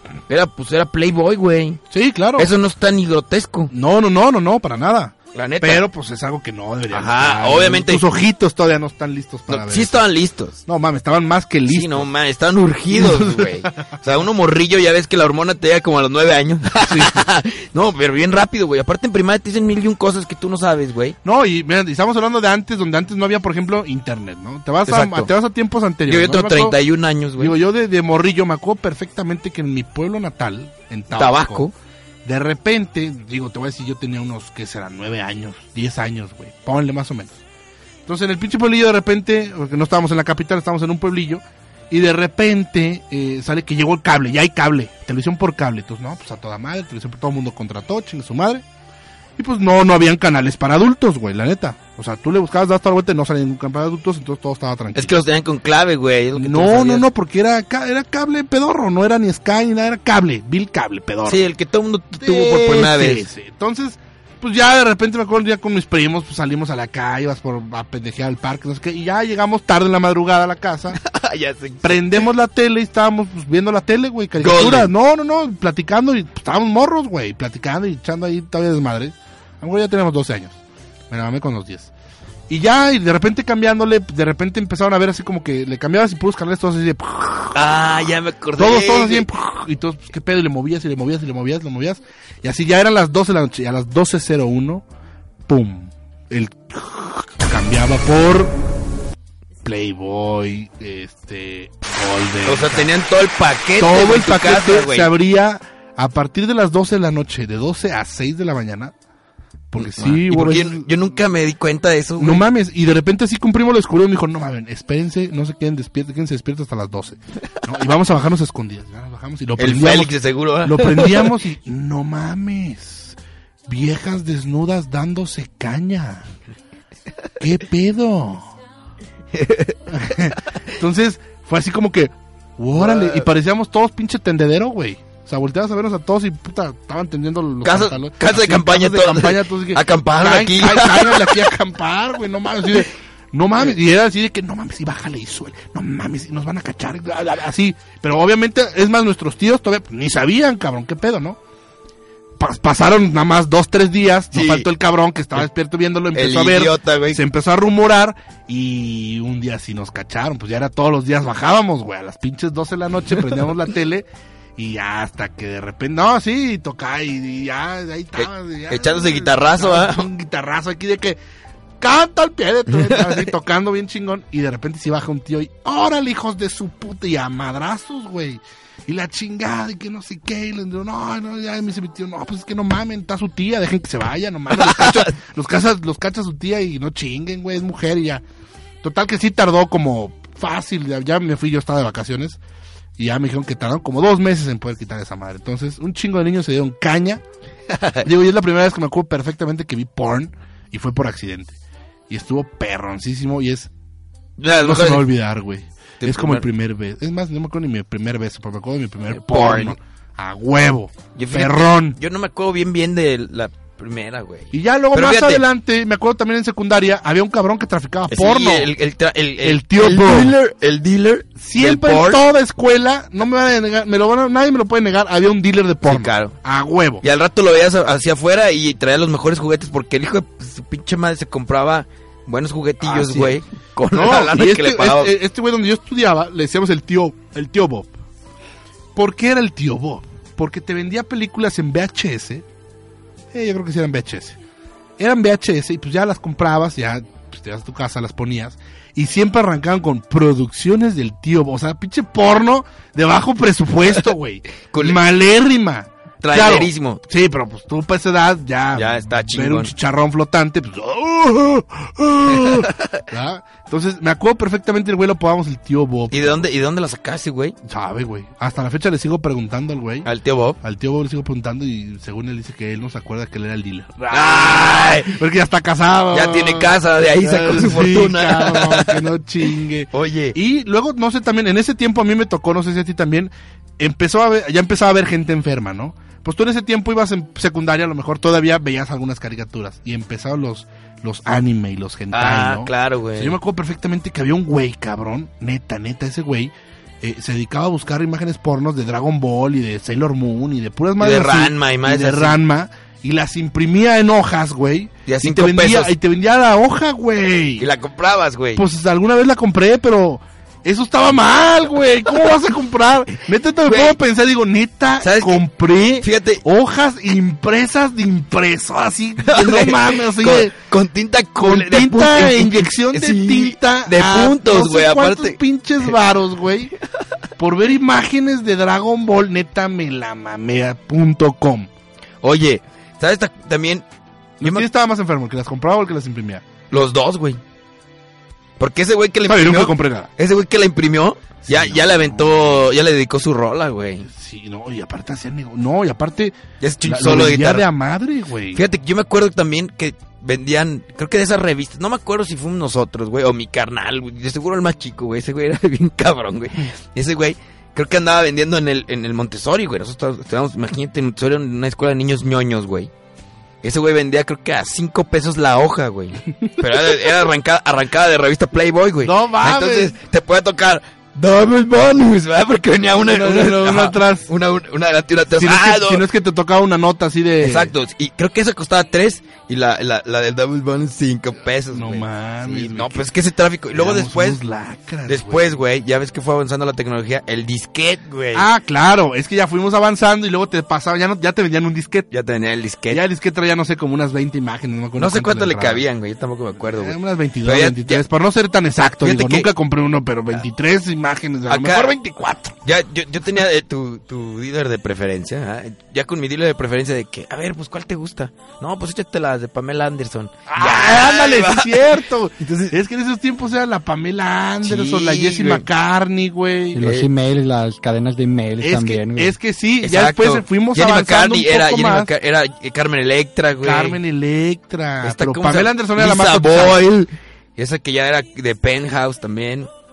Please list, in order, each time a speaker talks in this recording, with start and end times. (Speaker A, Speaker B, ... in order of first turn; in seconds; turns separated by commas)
Speaker A: 0.3-1.8, Speaker B: 1.9-2.5, Speaker A: 2.4-3.7, Speaker B: 3.7-10.0, Speaker A: 5.3-5.8, Speaker A: 6.9-8.0, Speaker A: 9.5-10.6, Speaker B: 10.7-12.1, Speaker A: 11.7-21.1, Speaker B: 12.9-13.9, Speaker B: 16.8-17.2, Speaker B: 21.2-26.8, Speaker A: 24.9-25.3, Speaker A: 26.1-27.6, Speaker B: 27.4-31.7, Speaker A: 31.1-31.7, Speaker B: 32.2-37.4, Speaker B: 38.0-48.6, Speaker B: 49.4-55.2, Speaker A: 54.9-57.0, Speaker B: 56.3-61.5, Speaker A: 61.2-63.3, Speaker B: 62.2-71.0, Speaker A: 71.0-72.3, Speaker B: 71.8-80.6, Speaker A: 74.4-74.9, Speaker B: 81.1-81.9, Speaker B: 82.5-87.6, Speaker A: 87.5-89.3, Speaker B: 88.5-94.8, Speaker B: 95.5-98.5, Speaker B: 99.6-102.9, Speaker A: 102.5-105.1, Speaker B: 103.8-108.9, Speaker B: 109.7-110.9, Speaker A: 109.8-112.4, Speaker B: 112.2-126.3, Speaker A: 119.6-121.3, Speaker B: 127.4-128.5, Speaker A: 129.3-129.8, Speaker B: 129.9-151.4, Speaker A: 132.7-133.3, Speaker A: 137.6-141.5, Speaker B: 152.4-171.2, Speaker A: 154.3-154.7, Speaker A: 156.1-157.2, Speaker A: 168.2-170.1, Speaker B: 171.8-188.2, Speaker A: 172.7-173.2, Speaker A: 184.5-185.2, Speaker B: 188.8-192.4, Speaker B: 193.0-197.2, Speaker A: 197.7-198.1, Speaker B: 198.0-201.6, Speaker B: 202.1-203.7, Speaker A: 204.4-205.1, Speaker B: 204.6-212.0, Speaker A: 206.0-206.5, Speaker A: 209.1-209.8, Speaker A: 211.1-215.4, Speaker B: 214.5-218.7, Speaker A: 218.1-222.2, Speaker B: 219.4-220.3, Speaker B: 221.4-227.0, Speaker A: 225.8-226.3, Speaker A: 227.0-235.1, Speaker B: 232.8-237.9, Speaker B: 238.9-242.4, Speaker B: 243.3-244.4, Speaker B: 245.0-266.4, Speaker A: 254.7-255.0, Speaker A: 256.2-257.0, Speaker A: 258.7-259.7, Speaker A: 262.3-263.0, Speaker A: 266.1-267.5, Speaker B: 267.6-270.1, Speaker A: 270.0-270.6, Speaker B: 270.6-307.7, Speaker A: 274.1-275.2, Speaker A: 276.1-279.0, Speaker A: 279.9-280.4, Speaker A: 292.1-293.4, Speaker A: 301.0-302.4, Speaker A: 305.1-305.9, Speaker A: 307.6-308.6, Speaker B: 308.5-320.5, Speaker A: 313.6-314.0, Speaker A: 315.0-315.4, Speaker A: 316.0-316.4, Speaker A: 319.2-325.4, Speaker B: 321.4-326.7, Speaker B: 327.4-331.7, Speaker A: 332.2-333.8, Speaker B: 334.4-336.4, Speaker A: 334.4-334.7, Speaker A: 336.7-337.4, Speaker A: 338.6-344.1, Speaker B: 339.3-340.1, Speaker B: 341.4-342.6, Speaker B: 344.1-348.6, Speaker A: 346.6-347.7, Speaker A: 348.5-362.9, Speaker A: 363.6-376.0, Speaker B: 369.0-369.9, Speaker B: 373.0-374.3, Speaker B: 375.4-377.7, Speaker A: 377.4-384.4, Speaker B: 381.7-383.1, Speaker B: 383.7-385.6, Speaker A: 385.1-388.5, Speaker B: 388.3-392.1, Speaker A: 392.1-393.0, Speaker B: 392.9-395.9, Speaker A: 395.0-398.0, Speaker B: 396.6-402.5, Speaker A: 398.9-399.5, Speaker A: 401.5-402.0, Speaker A: 402.6-412.7, Speaker B: 410.5-416.9, Speaker A: 414.6-415.6, Speaker C: 416.7-419.4, Speaker A: 416.8-417.1, Speaker B: 418.6-422.1, Speaker A: 419.8-424.0, Speaker B: 423.6-426.9, Speaker A: 425.0-429.7